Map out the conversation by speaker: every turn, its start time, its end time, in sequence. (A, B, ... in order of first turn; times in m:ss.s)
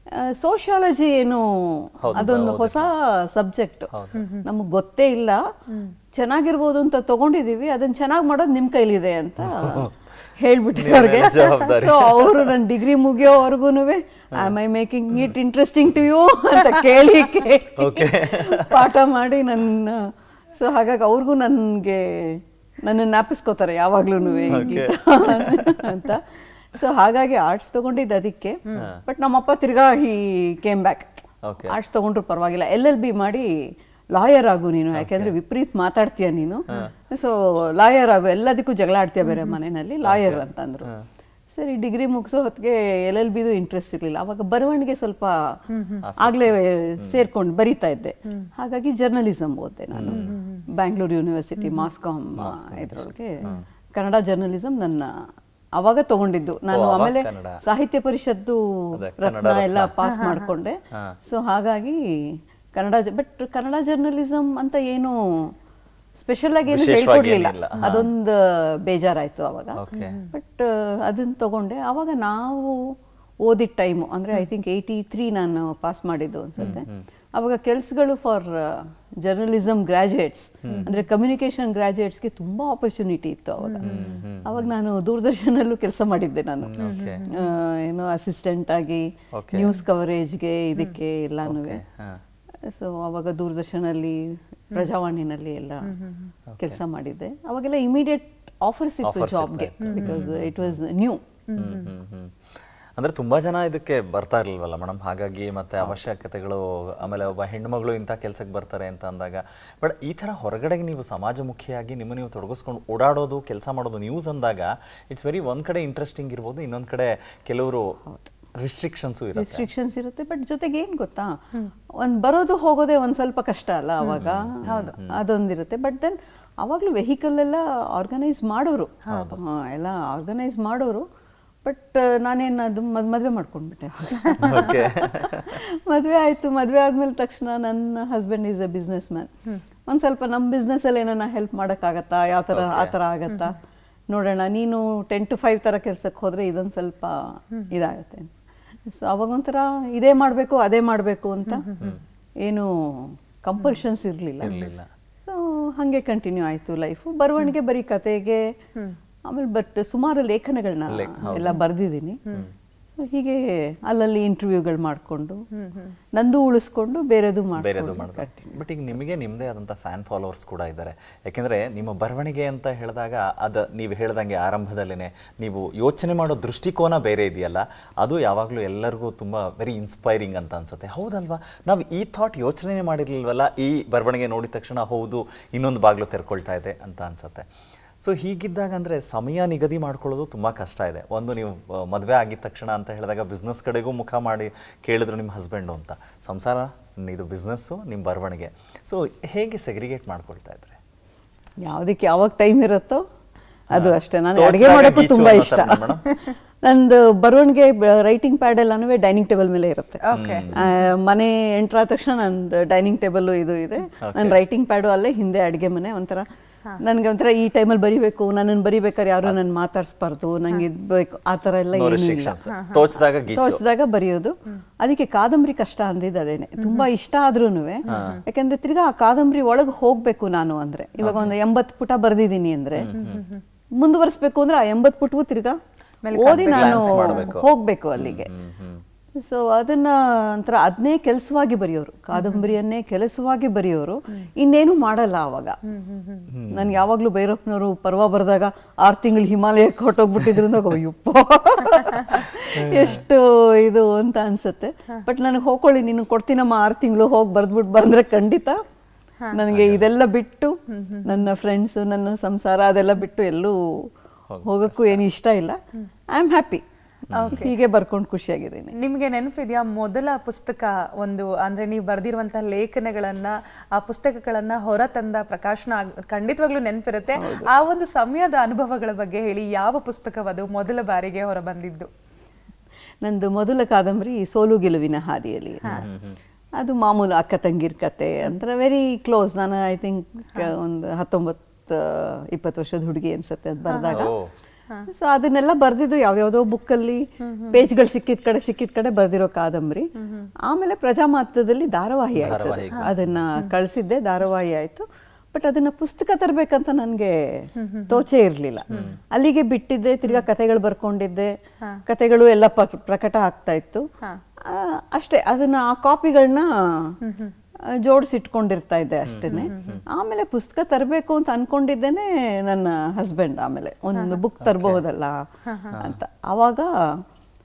0:00.1-0:03.9 A
0:02.0-0:02.9 B
0:03.9-0:04.2 B
0:04.2-0:04.4 C
0:04.4-0:05.4 A
0:06.1-0:33.5 A
0:09.4-0:10.0 B
0:10.8-0:12.6 B
0:17.8-0:18.9 B
0:24.3-0:24.7 C
0:24.5-0:26.1 B
0:28.7-0:29.0 B
0:31.4-0:31.8 B
0:34.1-0:40.9 A
0:34.9-0:35.3 B
0:39.2-0:39.6 C
0:40.0-0:41.1 B
0:41.5-0:45.3 A
0:45.7-0:46.0 C
0:46.0-0:47.3 B
0:46.2-0:53.4 A
0:50.0-0:50.4 B
0:50.1-0:50.7 C
0:51.6-0:51.9 C
0:52.4-0:53.7 B
0:54.0-0:55.1 A
0:55.8-1:05.5 A
0:56.7-0:57.6 B
0:59.0-1:00.0 B
1:00.0-1:00.5 C
1:00.9-1:01.2 B
1:06.2-1:12.9 A
1:06.7-1:08.1 B
1:09.7-1:10.2 B
1:09.9-1:10.3 C
1:13.4-1:23.9 A
1:16.6-1:17.0 B
1:20.6-1:20.9 B
1:20.7-1:21.0 C
1:23.6-1:24.2 C
1:23.8-1:24.7 B
1:24.4-1:31.8 A
1:26.6-1:27.3 B
1:26.8-1:27.5 C
1:29.3-1:29.7 B
1:31.4-1:32.2 B
1:32.7-1:35.9 A
1:35.9-1:36.3 C
1:36.5-1:36.8 B
1:36.6-1:41.2 A
1:39.0-1:40.8 B
1:39.9-1:40.3 C
1:41.5-1:41.9 C
1:41.6-1:58.0 B
1:58.6-1:59.7 B
1:59.4-2:01.4 A
2:02.0-2:11.1 A
2:04.0-2:05.0 C
2:04.2-2:05.1 B
2:09.1-2:09.4 B
2:11.6-2:14.8 A
2:14.3-2:14.7 C
2:14.4-2:15.6 B
2:15.5-2:19.3 A
2:19.9-2:23.6 A
2:22.5-2:23.0 B
2:24.1-2:28.3 A
2:28.9-2:31.6 A
2:31.5-2:32.0 C
2:32.4-2:34.6 A
2:34.4-2:34.9 B
2:35.2-2:38.4 A
2:39.3-2:42.2 A
2:40.9-2:41.6 B
2:41.3-2:41.6 C
2:43.0-2:45.4 A
2:45.6-2:46.0 C
2:46.2-2:48.6 A
2:47.6-3:07.5 B
3:08.0-3:20.8 B
3:21.6-3:23.0 A
3:23.7-3:26.0 A
3:23.7-3:26.1 B
3:26.6-3:36.3 A
3:30.1-3:30.7 C
3:30.1-3:30.6 B
3:34.0-3:34.4 B
3:36.8-3:42.4 A
3:41.7-3:43.6 B
3:42.6-3:42.9 C
3:43.3-3:52.9 A
3:46.6-3:46.9 C
3:47.9-3:48.2 C
3:47.9-3:48.2 B
3:51.0-3:51.3 B
3:52.8-3:53.2 B
3:52.9-3:53.4 C
3:53.8-3:55.6 A
3:56.0-3:57.3 C
3:56.1-3:58.3 A
3:56.2-3:58.8 B
3:59.2-4:05.6 A
4:02.1-4:02.5 C
4:05.7-4:06.3 C
4:06.3-4:06.8 B
4:06.5-4:18.6 A
4:12.6-4:13.0 B
4:19.3-4:23.9 A
4:19.5-4:19.8 B
4:20.7-4:21.3 C
4:24.3-4:25.0 B
4:24.4-4:25.6 A
4:26.1-4:26.6 A
4:27.1-4:27.4 B
4:27.1-4:27.6 C
4:27.4-4:28.8 A
4:28.8-4:41.9 C
4:37.2-4:37.5 A
4:43.0-4:45.8 A
4:45.6-4:46.2 B
4:46.6-4:54.1 A
4:53.7-4:54.1 C
4:53.9-4:54.3 B
4:54.9-4:59.9 A
4:57.2-4:57.6 C
5:00.0-5:00.3 C
5:00.5-5:11.3 A
5:02.2-5:03.2 B
5:02.7-5:03.5 C
5:07.6-5:08.0 C
5:08.7-5:09.0 B
5:11.9-5:13.8 A
5:14.4-5:17.0 A
5:17.0-5:17.3 C
5:17.8-5:25.2 A
5:19.1-5:19.8 B
5:19.3-5:19.8 C
5:24.4-5:24.8 B
5:25.5-5:25.8 C
5:25.7-5:27.0 A